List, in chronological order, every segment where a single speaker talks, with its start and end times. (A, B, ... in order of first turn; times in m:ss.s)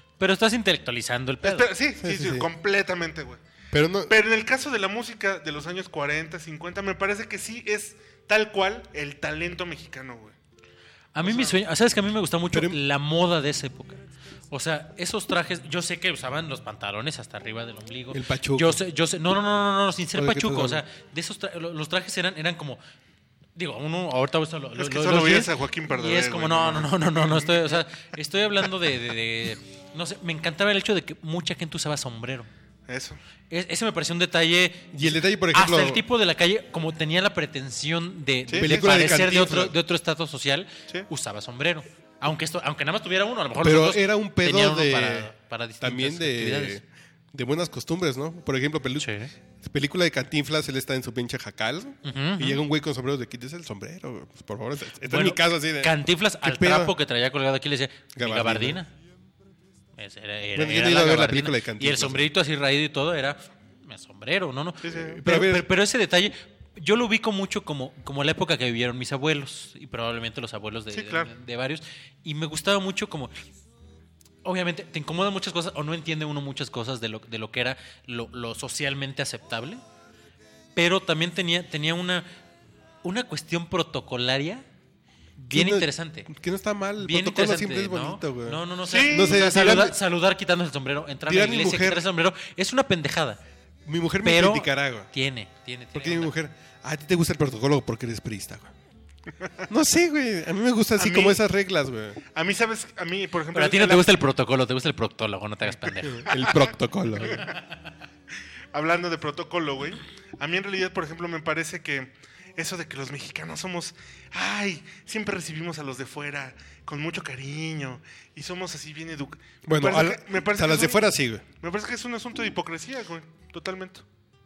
0:00.2-0:01.7 A
0:01.4-0:03.4 B
0:02.0-0:02.5 C
0:03.7-0:04.1 C
0:04.1-0:10.4 B
0:11.2-0:22.8 A
0:11.2-0:11.6 B
0:12.5-0:12.8 C
0:18.1-0:18.8 C
0:20.2-0:20.8 C
0:23.6-0:32.5 A
0:24.8-0:27.8 B
0:32.9-0:33.2 B
0:33.5-0:46.8 A
0:34.9-0:36.0 C
0:38.5-0:38.8 B
0:38.5-0:39.8 C
0:43.6-0:57.0 C
0:49.0-0:49.3 A
0:52.0-0:52.6 A
0:55.0-0:58.9 A
0:58.2-0:58.8 C
1:00.0-1:13.3 A
1:00.6-1:02.3 C
1:04.8-1:05.2 B
1:04.9-1:05.7 C
1:10.9-1:11.3 B
1:14.4-1:19.8 A
1:20.8-1:22.3 A
1:23.0-1:24.6 A
1:25.4-1:26.3 A
1:25.5-1:30.0 C
1:27.0-1:33.4 A
1:28.9-1:29.4 B
1:31.3-1:32.0 C
1:33.9-1:35.1 C
1:34.2-1:36.3 A
1:35.9-1:38.7 C
1:39.7-1:42.2 C
1:41.0-1:41.4 B
1:42.3-1:44.2 B
1:43.5-1:46.4 A
1:46.1-1:47.5 C
1:46.3-1:46.7 B
1:47.4-1:47.6 A
1:48.7-2:04.0 B
1:59.7-2:01.4 C